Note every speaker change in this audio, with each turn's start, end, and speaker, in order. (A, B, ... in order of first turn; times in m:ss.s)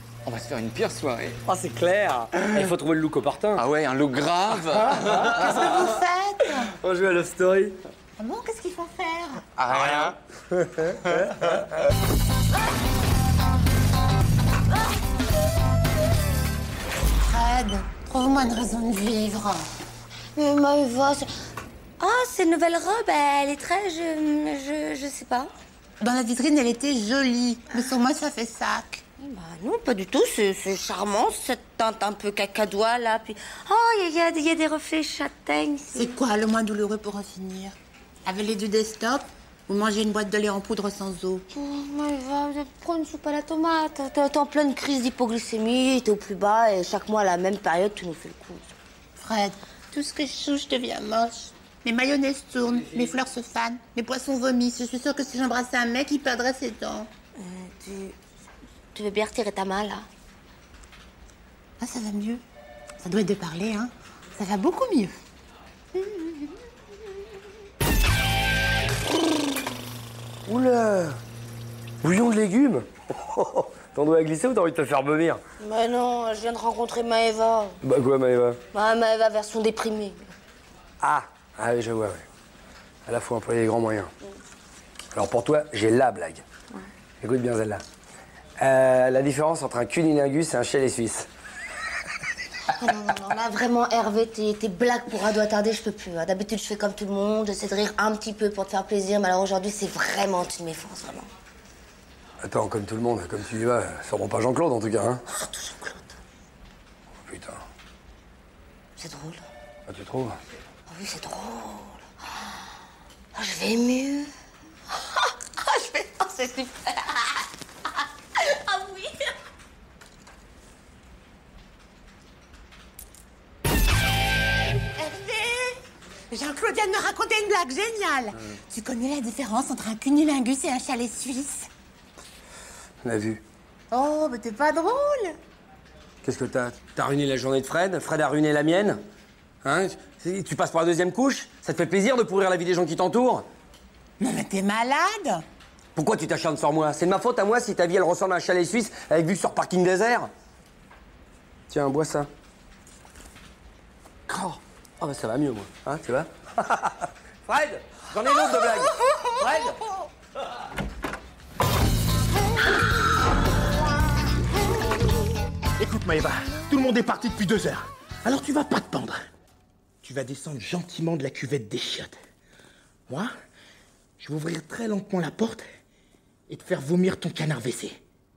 0:00.2-0:01.4 A
0:01.4-0:03.6 B
0:03.6-0:05.5 A
0:05.4-0:06.7 C
0:06.7-0:07.8 B
0:08.2-0:09.4 C
0:09.6-0:10.2 A
0:09.7-0:10.1 B
0:10.8-0:11.6 A
0:17.2-0:19.7 C
0:20.4-0:21.3 D
0:22.0-0:25.5 D
0:26.0-0:29.0 C
0:29.2-0:36.1 D
0:36.0-0:41.4 C
0:41.5-0:48.7 D
0:49.2-0:57.1 C
0:57.4-0:58.2 D
0:58.9-1:00.1 D
1:01.8-1:02.4 C
1:03.0-1:05.2 C
1:06.0-1:06.4 C
1:10.4-1:11.2 B
1:12.0-1:15.4 B
1:15.6-1:17.8 D
1:17.8-1:18.6 B
1:18.7-1:20.3 D
1:21.0-1:22.2 B
1:23.0-1:24.1 B
1:25.1-1:26.4 B
1:27.2-1:27.8 B
1:28.6-1:31.3 B
1:32.7-1:41.3 D
1:42.4-1:45.2 B
1:45.3-1:46.1 D
1:47.2-1:47.6 B
1:49.0-1:49.5 D
1:49.9-1:50.4 B
1:50.9-1:52.1 D
1:53.3-1:54.3 D
1:54.9-1:57.4 D
1:58.4-1:59.3 D
2:05.0-2:05.8 C
2:06.3-2:11.7 C
2:13.0-2:13.4 B
2:13.9-2:15.4 C
2:16.2-2:19.0 B
2:19.6-2:23.5 B
2:24.2-2:25.4 C
2:25.9-2:30.3 B
2:31.7-2:32.3 B
2:34.3-2:39.8 B
2:45.8-2:49.2 E
2:50.0-2:52.2 E
2:54.2-2:55.6 E
2:56.5-2:58.0 E